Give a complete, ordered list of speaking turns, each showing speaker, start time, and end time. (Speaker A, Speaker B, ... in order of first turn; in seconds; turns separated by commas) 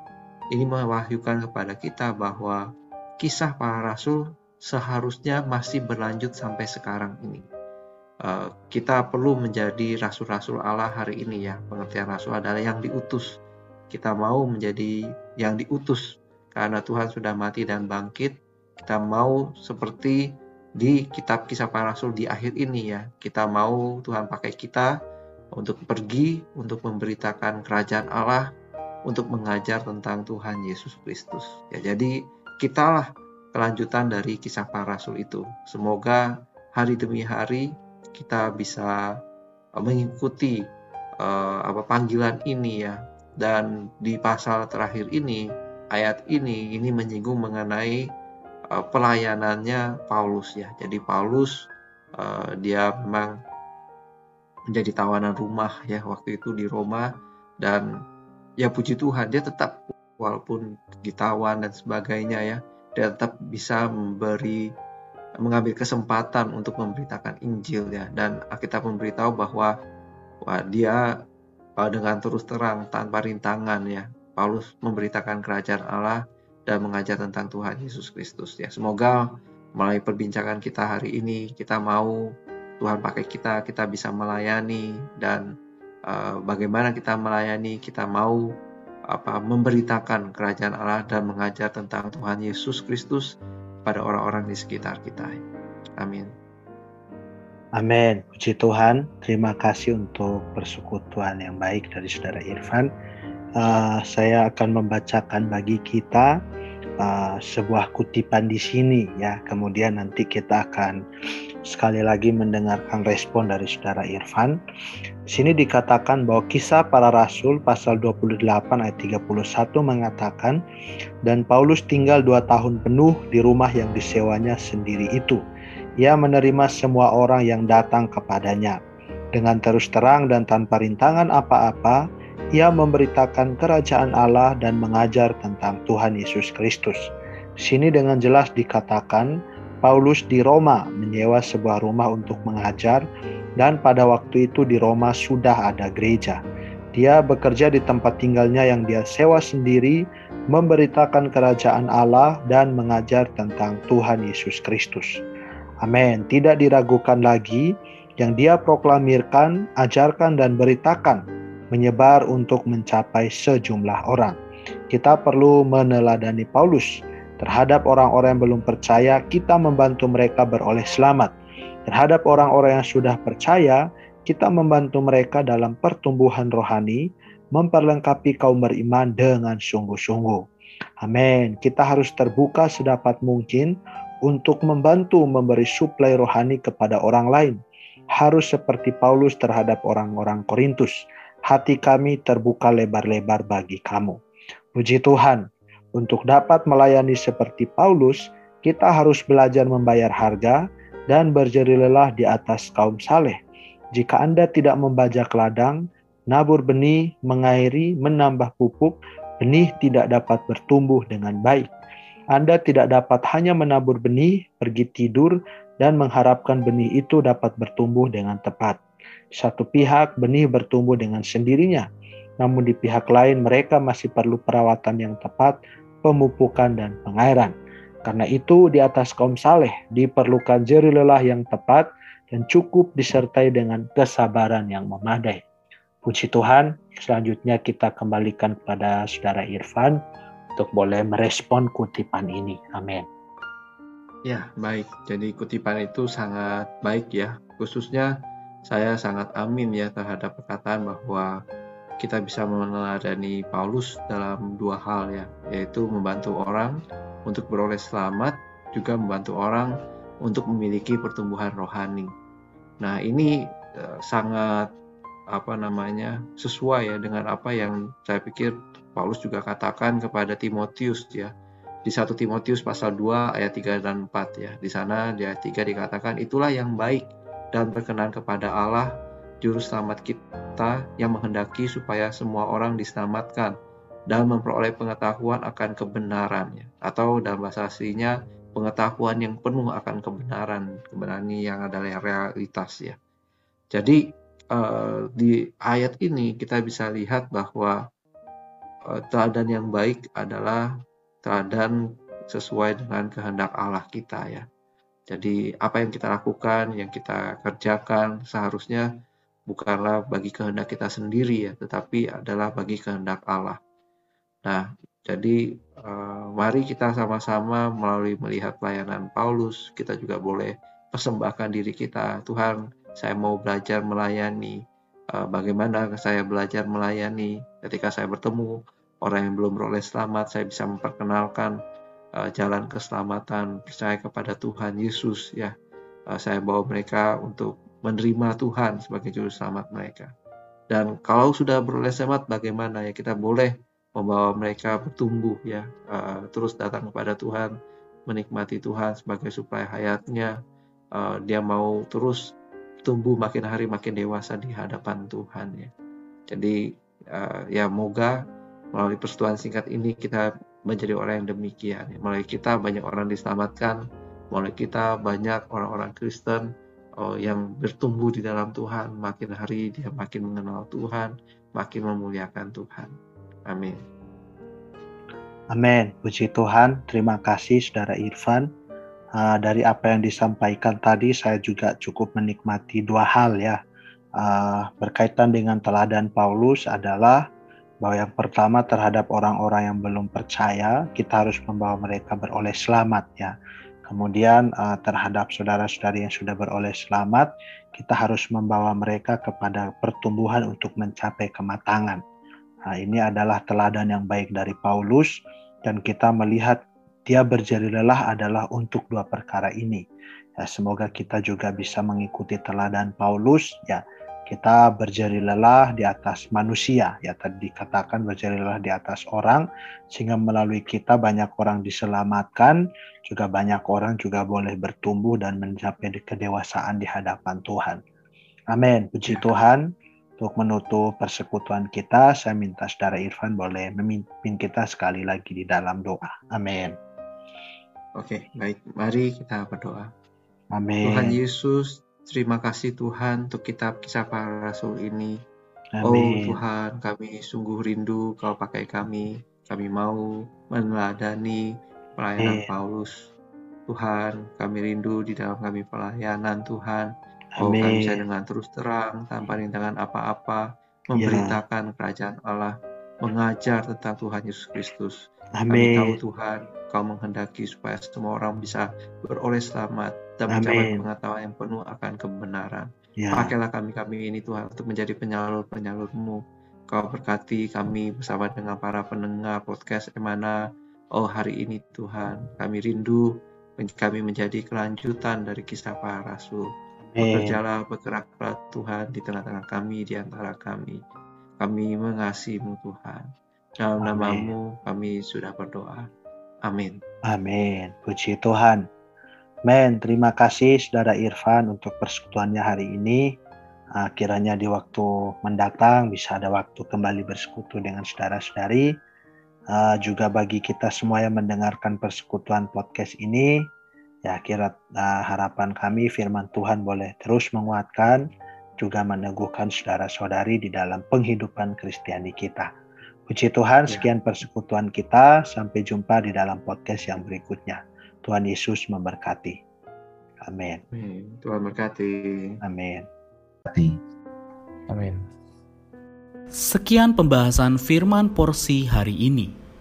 Speaker A: 0.5-2.6, Speaker A: 3.2-7.4, Speaker A: 8.2-13.3, Speaker A: 13.9-20.2, Speaker A: 20.8-24.9, Speaker A: 25.6-28.4, Speaker A: 29.1-38.9, Speaker A: 39.8-40.5, Speaker A: 41.2-45.4, Speaker A: 45.9-48.0, Speaker A: 48.7-53.3, Speaker A: 54.7-57.1, Speaker A: 58.6-64.6, Speaker A: 65.4-69.7, Speaker A: 70.5-71.0, Speaker A: 71.8-82.2, Speaker A: 82.8-85.4, Speaker A: 86.1-88.4, Speaker A: 89.1-93.3, Speaker A: 93.8-95.4, Speaker A: 96.0-96.3, Speaker B: 97.8-102.9, Speaker B: 103.6-106.3, Speaker B: 107.0-111.0, Speaker B: 111.7-114.6, Speaker B: 115.3-120.6, Speaker B: 121.3-125.4, Speaker B: 126.0-128.8, Speaker B: 129.3-132.0, Speaker B: 132.6-137.0, Speaker B: 137.6-139.3, Speaker B: 139.8-143.0, Speaker B: 143.6-146.4, Speaker B: 146.9-155.1, Speaker B: 155.8-161.2, Speaker B: 161.7-164.4, Speaker B: 164.9-166.9, Speaker B: 167.4-171.3, Speaker B: 171.9-177.0, Speaker B: 177.6-180.4, Speaker B: 181.0-183.7, Speaker B: 184.3-187.6, Speaker B: 188.2-191.0, Speaker B: 191.5-194.2, Speaker B: 194.8-195.4, Speaker B: 196.0-203.4, Speaker B: 203.9-211.7, Speaker B: 212.3-218.8, Speaker B: 219.3-221.9, Speaker B: 222.4-227.5, Speaker B: 228.1-235.4, Speaker B: 236.1-240.0, Speaker B: 240.6-243.1, Speaker A: 244.3-248.1, Speaker A: 248.7-251.3, Speaker A: 252.0-256.8, Speaker A: 257.3-259.7, Speaker A: 260.2-262.1, Speaker A: 262.8-264.7, Speaker A: 265.3-271.3, Speaker A: 271.9-278.9, Speaker A: 279.4-283.5, Speaker A: 284.1-293.0, Speaker A: 293.7-294.0, Speaker A: 294.5-297.8, Speaker A: 298.9-300.6, Speaker A: 301.2-301.8, Speaker A: 302.3-304.4, Speaker A: 305.1-308.9, Speaker A: 309.5-313.6, Speaker A: 314.4-324.6, Speaker A: 325.1-331.6, Speaker A: 332.2-335.5, Speaker A: 336.1-340.1, Speaker A: 340.7-347.5, Speaker A: 348.1-350.3, Speaker A: 351.0-352.3, Speaker A: 352.9-355.7, Speaker A: 356.3-356.6, Speaker A: 357.1-358.2, Speaker A: 358.7-363.8, Speaker A: 364.3-366.4, Speaker A: 367.0-372.9, Speaker A: 373.5-373.8, Speaker B: 375.5-378.5, Speaker B: 379.2-383.6, Speaker B: 384.2-387.2, Speaker B: 387.8-393.3, Speaker B: 393.9-402.0, Speaker B: 402.7-405.1, Speaker B: 405.6-409.8, Speaker B: 410.4-427.8, Speaker B: 428.5-429.6, Speaker B: 430.2-436.7, Speaker A: 438.0-439.9, Speaker B: 440.5-441.2, Speaker A: 440.9-445.1, Speaker B: 445.8-446.4, Speaker A: 445.8-451.4, Speaker A: 452.0-452.9, Speaker B: 452.2-452.5, Speaker A: 453.7-456.9, Speaker B: 457.4-458.0, Speaker A: 457.4-465.0, Speaker B: 461.0-461.3, Speaker B: 465.4-465.9, Speaker A: 465.5-480.4, Speaker B: 470.3-470.8, Speaker B: 473.0-473.3, Speaker A: 481.0-483.1, Speaker A: 483.6-486.5, Speaker B: 486.9-487.4, Speaker A: 487.0-490.8, Speaker A: 491.4-493.0, Speaker A: 493.6-495.9, Speaker B: 493.8-494.3, Speaker A: 496.4-496.8, Speaker B: 497.1-498.6, Speaker B: 499.5-503.1, Speaker B: 503.8-508.7, Speaker B: 509.5-513.3, Speaker B: 514.1-518.0, Speaker B: 518.6-522.5, Speaker B: 523.1-529.4, Speaker B: 530.3-530.6, Speaker A: 530.7-532.4, Speaker B: 532.4-532.9, Speaker C: 536.4-539.3